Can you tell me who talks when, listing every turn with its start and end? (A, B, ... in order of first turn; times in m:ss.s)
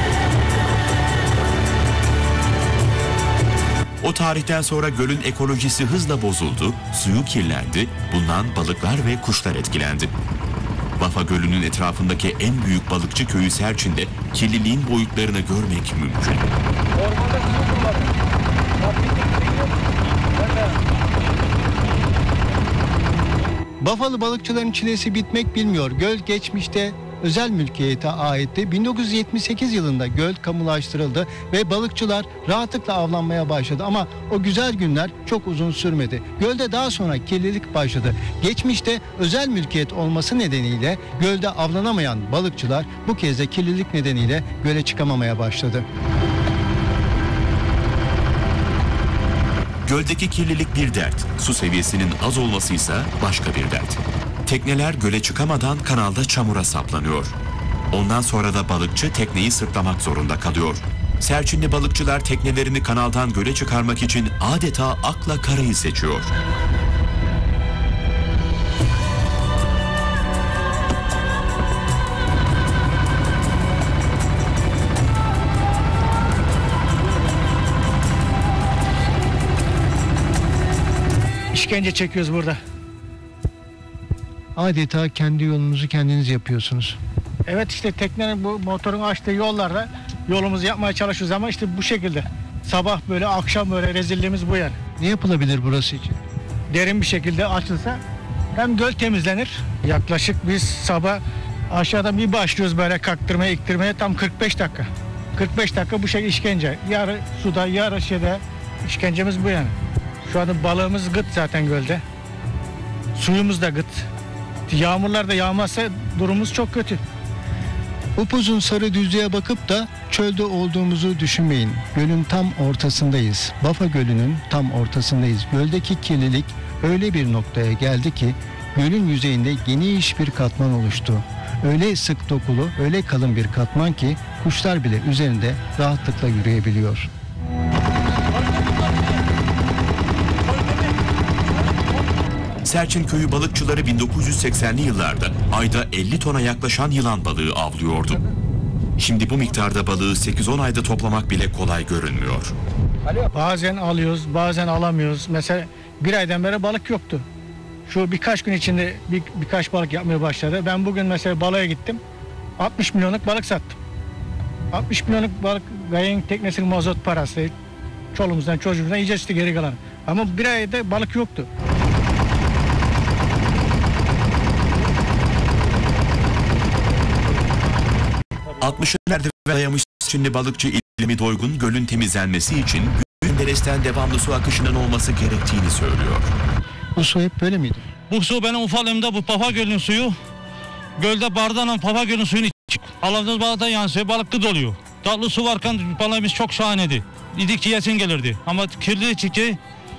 0:04.0-0:10.1 A
0:11.0-0:16.5 A
0:23.8-0:45.8 B
0:49.8-0:57.4 A
0:57.9-1:06.3 A
1:21.5-1:22.6 C
1:24.6-1:27.0 B
1:27.5-1:34.8 C
1:35.0-1:36.2 B
1:36.7-1:38.0 C
1:38.6-1:49.7 C
1:50.3-1:52.0 C
1:53.2-1:54.1 C
1:54.7-1:57.0 C
1:58.2-2:17.1 B
2:22.6-2:28.2 A
2:29.0-2:32.5 A
2:33.3-2:37.2 C
2:37.9-2:42.0 C
2:42.6-2:43.8 C
2:44.7-2:47.5 C
2:48.1-2:51.5 C
2:58.6-3:06.3 A
3:07.0-3:07.9 B
3:08.1-3:10.2 D
3:11.0-3:19.6 D